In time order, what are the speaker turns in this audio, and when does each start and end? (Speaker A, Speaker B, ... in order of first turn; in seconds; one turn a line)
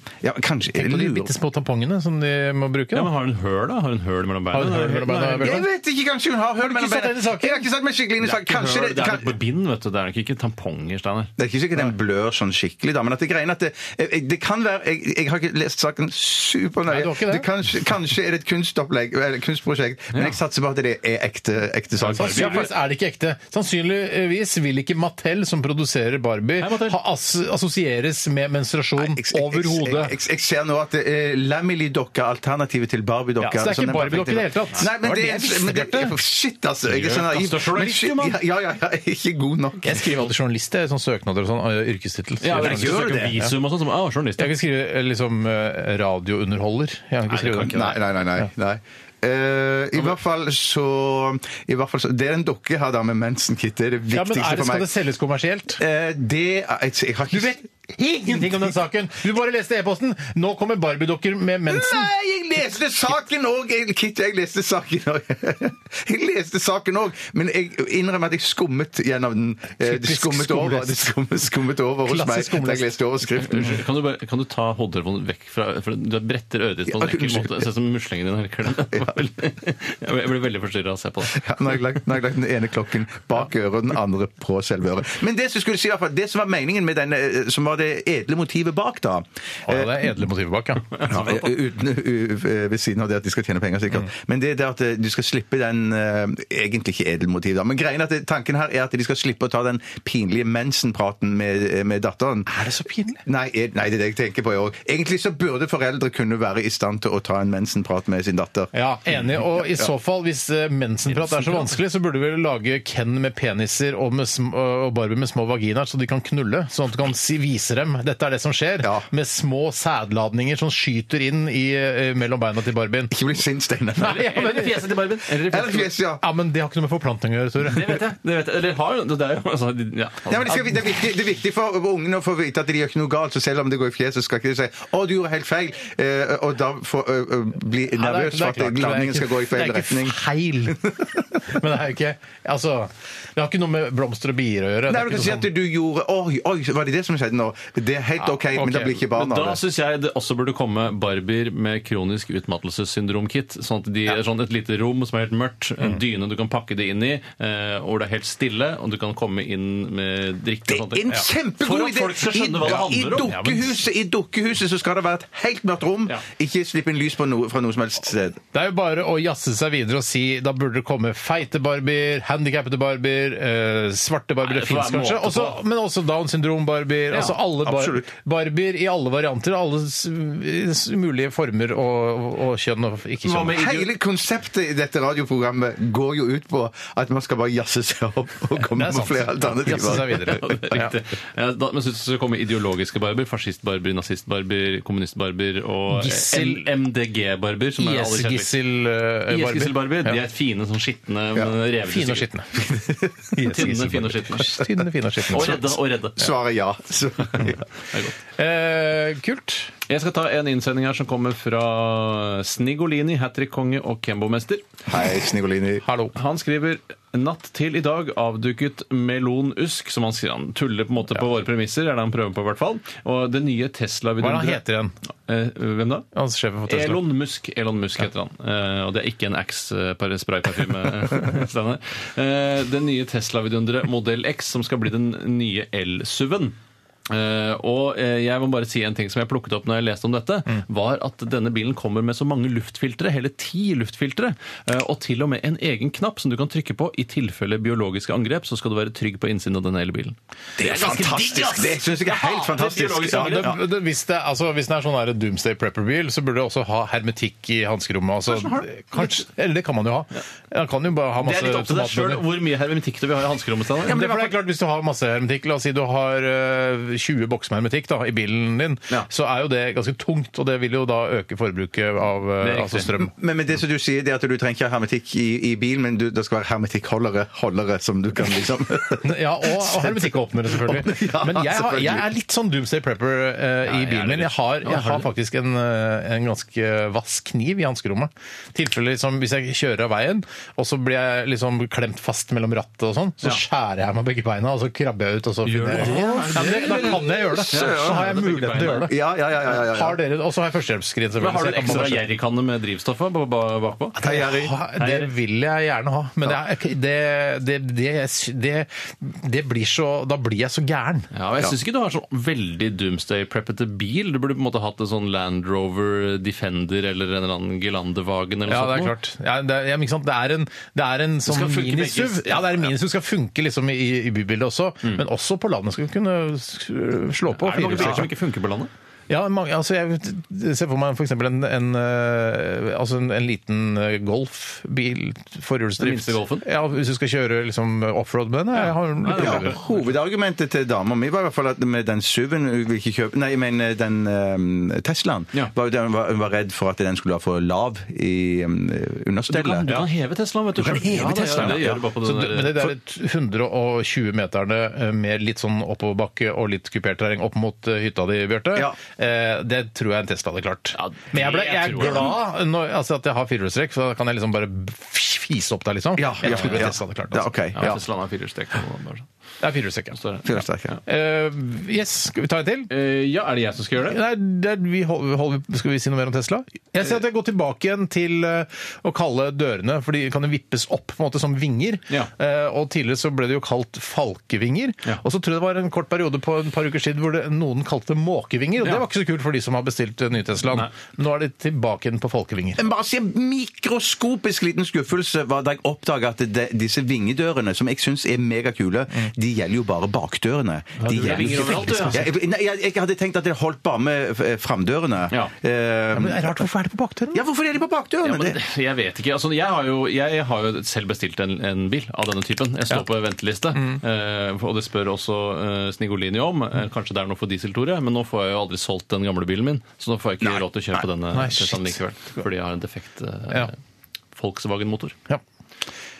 Speaker A: 0.2-1.3
Speaker B: 0.7-3.1
Speaker C: 2.9-5.6
Speaker B: 4.5-5.7
Speaker A: 5.4-9.3
Speaker B: 6.6-7.7
Speaker C: 8.2-11.3
Speaker A: 11.4-22.7
Speaker B: 16.9-17.5
Speaker C: 22.0-22.7
Speaker B: 22.1-30.1
Speaker C: 26.6-27.0
Speaker A: 29.0-40.0
Speaker B: 33.4-36.1
Speaker C: 36.9-38.4
Speaker B: 39.8-43.5
Speaker C: 42.4-44.5
Speaker A: 42.5-43.4
Speaker B: 44.4-48.5
Speaker C: 47.3-47.9
Speaker A: 47.6-54.9
Speaker B: 54.1-55.8
Speaker A: 55.8-57.6
Speaker B: 57.3-62.1
Speaker A: 58.3-58.5
Speaker A: 61.7-73.8
Speaker B: 69.8-71.1
Speaker B: 72.0-72.9
Speaker C: 73.4-81.4
Speaker A: 76.9-77.7
Speaker A: 81.3-90.0
Speaker B: 89.7-91.0
Speaker C: 90.9-91.5
Speaker A: 91.1-102.5
Speaker B: 102.5-103.2
Speaker A: 103.2-108.7
Speaker B: 108.7-123.2
Speaker A: 109.2-109.9
Speaker C: 111.1-111.7
Speaker A: 123.1-124.7
Speaker B: 124.0-124.9
Speaker C: 124.0-125.9
Speaker A: 125.5-126.2
Speaker B: 126.2-128.0
Speaker C: 127.6-130.7
Speaker A: 130.3-141.5
Speaker B: 137.9-140.9
Speaker B: 141.4-145.5
Speaker A: 144.9-149.6
Speaker C: 148.2-163.3
Speaker A: 160.7-168.4
Speaker B: 163.1-163.8
Speaker B: 168.5-183.6
Speaker C: 174.4-175.6
Speaker A: 177.1-178.1
Speaker C: 183.2-183.9
Speaker A: 183.5-190.2
Speaker B: 188.7-190.9
Speaker C: 190.0-198.6
Speaker B: 195.9-196.7
Speaker B: 197.8-200.2
Speaker C: 199.3-202.3
Speaker B: 201.8-202.7
Speaker A: 202.6-203.5
Speaker B: 203.3-205.7
Speaker C: 203.4-204.6
Speaker C: 205.3-206.3
Speaker A: 206.2-207.6
Speaker B: 208.4-209.7
Speaker C: 209.9-214.6
Speaker A: 214.8-215.8
Speaker B: 215.8-216.1
Speaker C: 216.1-224.6
Speaker B: 224.2-224.9
Speaker C: 225.3-226.1
Speaker B: 226.1-227.1
Speaker C: 226.7-236.5
Speaker C: 237.1-253.5
Speaker A: 250.6-253.6
Speaker B: 253.0-262.2
Speaker C: 258.3-259.1
Speaker C: 261.2-264.1
Speaker B: 263.9-273.1
Speaker A: 263.9-264.2
Speaker C: 272.4-272.9
Speaker A: 273.1-282.1
Speaker B: 279.0-298.9
Speaker C: 283.6-285.1
Speaker C: 295.4-298.9
Speaker A: 295.8-300.0
Speaker B: 299.5-302.1
Speaker C: 301.2-305.1
Speaker B: 303.9-311.1
Speaker A: 304.0-304.5
Speaker C: 311.1-318.9
Speaker B: 318.5-328.1
Speaker C: 321.2-322.7
Speaker C: 327.4-328.7
Speaker B: 329.1-339.6
Speaker C: 335.8-336.4
Speaker C: 338.5-339.8
Speaker A: 339.1-349.8
Speaker C: 349.3-352.7
Speaker A: 350.6-351.8
Speaker B: 351.1-367.3
Speaker C: 360.7-362.1
Speaker A: 366.0-367.8
Speaker C: 366.2-366.6
Speaker C: 367.6-369.1
Speaker B: 369.4-370.0
Speaker C: 369.9-370.8
Speaker A: 370.2-370.7
Speaker B: 370.9-372.7
Speaker C: 372.7-374.0
Speaker B: 373.8-392.6
Speaker A: 392.6-406.4
Speaker C: 400.8-402.1
Speaker B: 400.9-402.1
Speaker B: 405.9-407.2
Speaker A: 407.1-408.4
Speaker C: 408.0-423.6
Speaker B: 413.5-413.8
Speaker B: 421.1-421.8
Speaker C: 424.1-424.9